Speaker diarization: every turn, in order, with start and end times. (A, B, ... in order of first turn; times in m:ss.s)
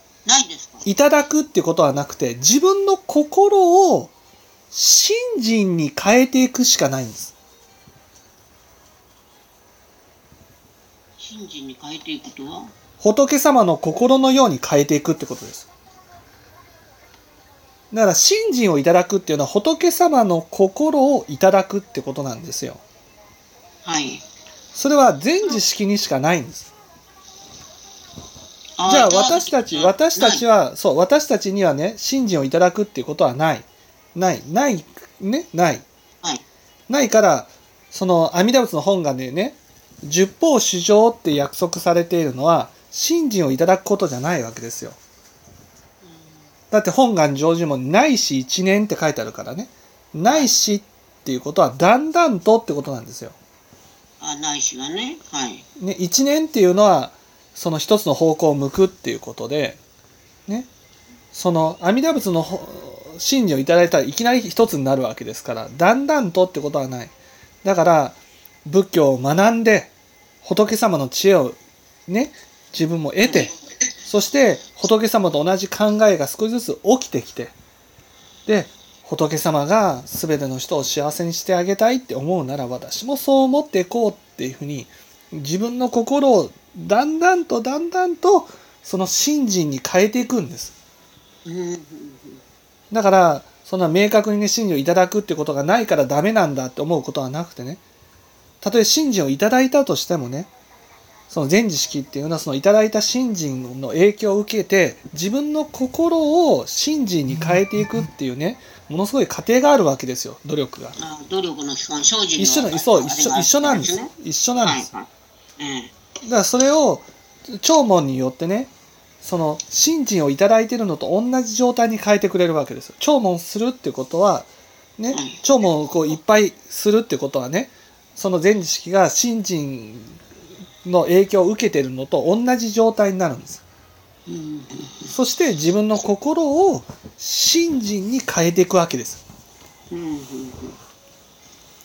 0:00.2-0:00.9 A
0:00.9-0:04.1 B
0:04.7-0:07.3 B
0:11.2-0:12.7 A
0:13.0-0:15.7 B
0:17.9-0:22.8 B
0:23.8-0:24.2 A
0:24.7-0:26.7 B
0:28.8-0:30.4 A
0:28.9-0:35.8 B
0:36.9-0:45.0 B
0:46.0-0:46.5 A
0:46.7-0:53.4 B
0:50.3-0:50.6 A
0:54.2-0:55.6 A
0:55.8-0:59.8 B
1:01.3-1:07.1 B
1:07.6-1:09.9 B
1:10.4-1:13.5 B
1:13.2-1:13.5 A
1:14.1-1:17.6 B
1:18.5-1:30.8 B
1:31.4-1:32.4 A
1:32.9-1:37.8 B
1:38.6-1:40.5 B
1:41.3-1:51.0 B
1:51.0-1:55.1 A
1:52.4-1:54.9 B
1:55.6-1:55.9 A
1:56.2-2:10.2 B
2:05.1-2:05.4 A
2:10.8-2:13.6 B
2:14.3-2:15.1 A
2:15.1-2:19.2 B
2:19.9-2:20.8 A